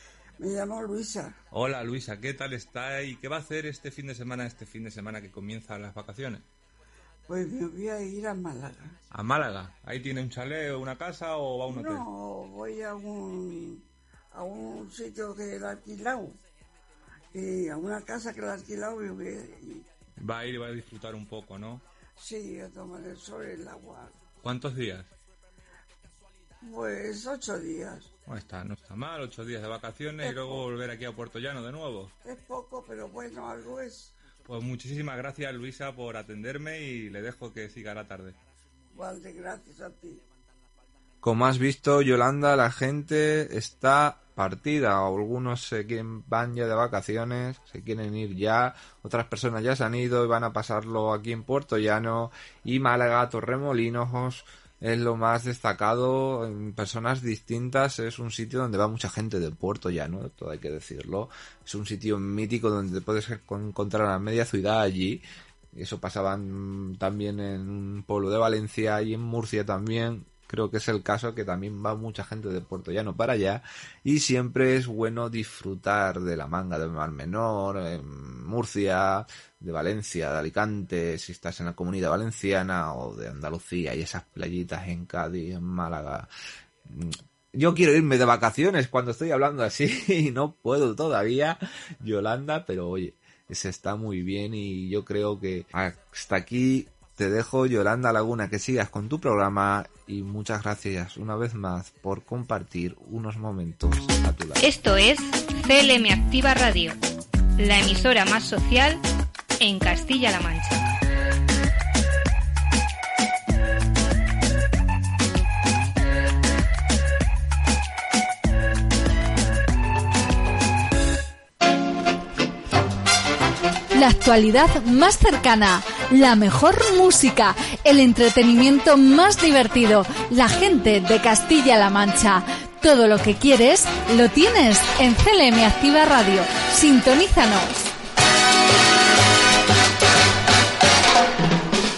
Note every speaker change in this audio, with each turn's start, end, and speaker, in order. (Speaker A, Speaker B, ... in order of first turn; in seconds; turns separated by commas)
Speaker A: 0.4-1.3, Speaker B: 1.5-6.4, Speaker A: 7.3-8.9, Speaker B: 9.1-12.0, Speaker A: 11.7-16.4, Speaker A: 17.3-19.8, Speaker B: 20.2-21.8, Speaker A: 22.2-24.1, Speaker B: 24.4-25.1, Speaker A: 26.6-28.1, Speaker B: 28.3-32.1, Speaker A: 30.2-30.6, Speaker A: 32.2-34.1, Speaker B: 34.4-38.4, Speaker A: 38.9-40.2, Speaker C: 41.2-65.2, Speaker C: 65.7-86.3, Speaker C: 86.9-104.6, Speaker D: 104.6-107.0, Speaker D: 107.6-109.0, Speaker D: 109.6-110.8, Speaker E: 123.9-137.9